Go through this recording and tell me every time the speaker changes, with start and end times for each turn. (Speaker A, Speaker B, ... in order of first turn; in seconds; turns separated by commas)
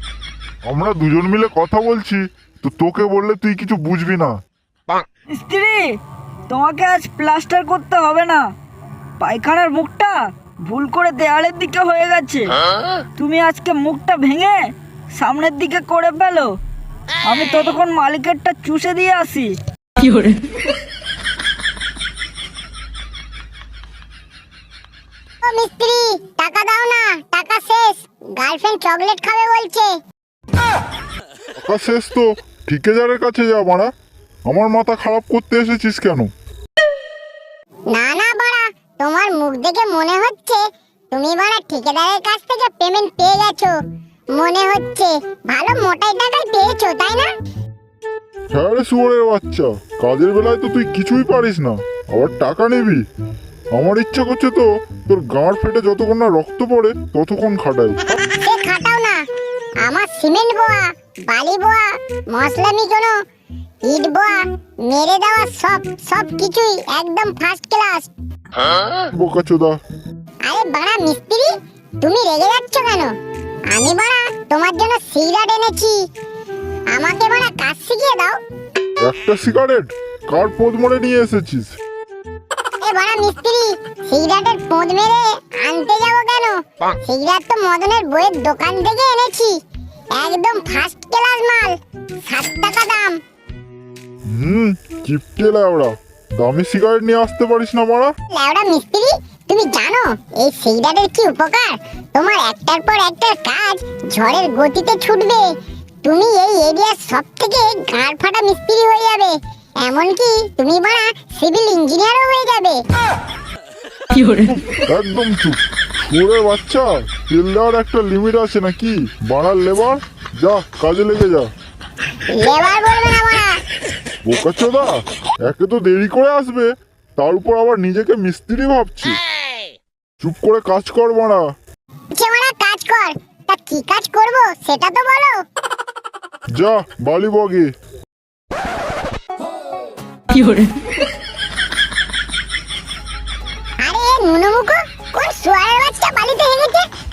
Speaker A: 0.6-4.4, Speaker B: 5.3-5.9, Speaker B: 6.5-8.4, Speaker B: 9.2-12.6, Speaker B: 13.2-16.5, Speaker B: 17.3-19.6, Speaker C: 25.4-29.9, Speaker A: 31.6-33.9, Speaker A: 34.5-36.3, Speaker C: 37.9-43.8, Speaker C: 44.3-47.3, Speaker A: 48.5-53.0, Speaker A: 53.7-58.2, Speaker C: 58.4-59.2, Speaker C: 59.8-63.2, Speaker C: 63.8-68.1, Speaker A: 69.1-69.8, Speaker C: 70.4-71.5, Speaker C: 72.0-73.2, Speaker C: 73.7-76.0, Speaker C: 76.9-78.4, Speaker A: 79.0-81.7, Speaker C: 82.8-89.5, Speaker C: 90.1-91.7, Speaker C: 92.3-93.2, Speaker A: 94.3-98.1, Speaker C: 98.3-105.5, Speaker C: 106.0-112.8, Speaker A: 114.3-121.5, Speaker C: 122.3-123.6, Speaker A: 124.2-129.2, Speaker A: 130.2-131.5, Speaker C: 132.1-135.4, Speaker A: 136.5-137.7, Speaker C: 143.8-146.8